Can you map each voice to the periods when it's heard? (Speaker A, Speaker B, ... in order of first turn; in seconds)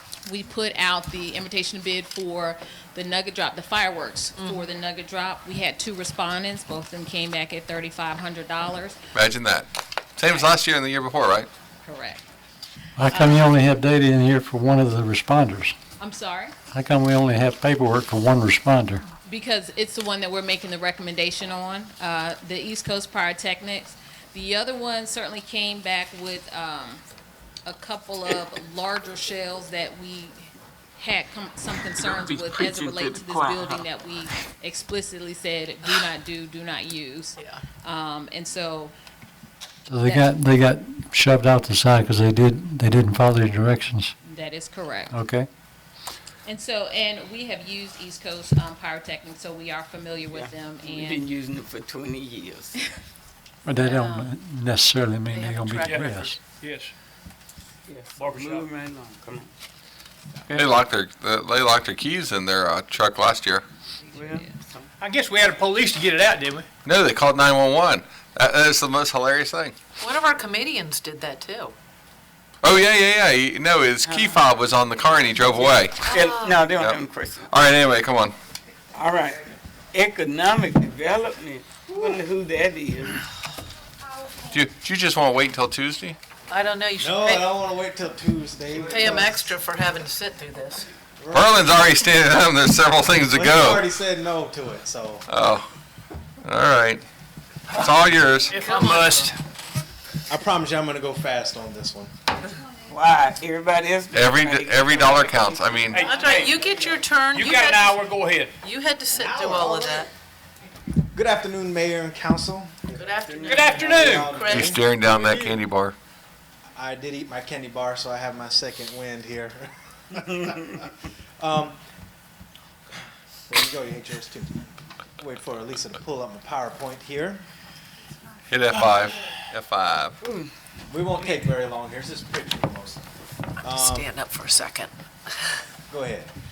Speaker A: 0.2-9.0, 11.8-12.2, 16.0-16.5, 19.2-27.0, 27.6-38.9, 40.0-40.3, 44.2-45.1, 46.4-51.2, 53.8-54.3
Speaker B: 4.4-4.7, 55.3-56.4, 70.0-71.8, 76.0-76.7, 86.5-87.5, 88.8-90.9, 98.5-99.3, 105.9-108.1, 108.6-110.1, 113.0-114.8, 133.6-135.5
Speaker C: 9.1-11.5, 60.5-63.6, 66.8-69.8, 72.6-76.0, 76.8-78.3, 84.5-86.2, 91.3-93.8, 95.3-95.7, 96.4-97.0, 97.8-98.5, 104.1-106.0, 114.5-116.0, 128.5-130.2
Speaker D: 13.0-15.8, 16.7-19.0, 39.9-44.1, 45.1-45.5, 53.6-56.3
Speaker E: 32.0-33.9, 50.3-52.8, 57.9-59.5, 64.1-64.9, 74.0-74.4, 75.5-77.5, 78.9-83.2, 102.8-107.0, 113.3-113.6, 130.2-130.5
Speaker F: 55.8-56.9, 58.1-58.7, 65.0-66.7, 98.5-99.3, 105.9-106.5, 107.3-108.5, 113.4-114.5, 115.0-115.5
Speaker G: 87.0-89.5, 91.2-91.9, 93.3-95.2, 100.3-102.1, 109.1-110.1, 111.1-113.0, 113.6-114.8, 116.7-120.8, 121.4-121.8, 123.5-124.6, 125.2-127.4, 130.9-133.1, 133.6-134.1, 135.9-136.3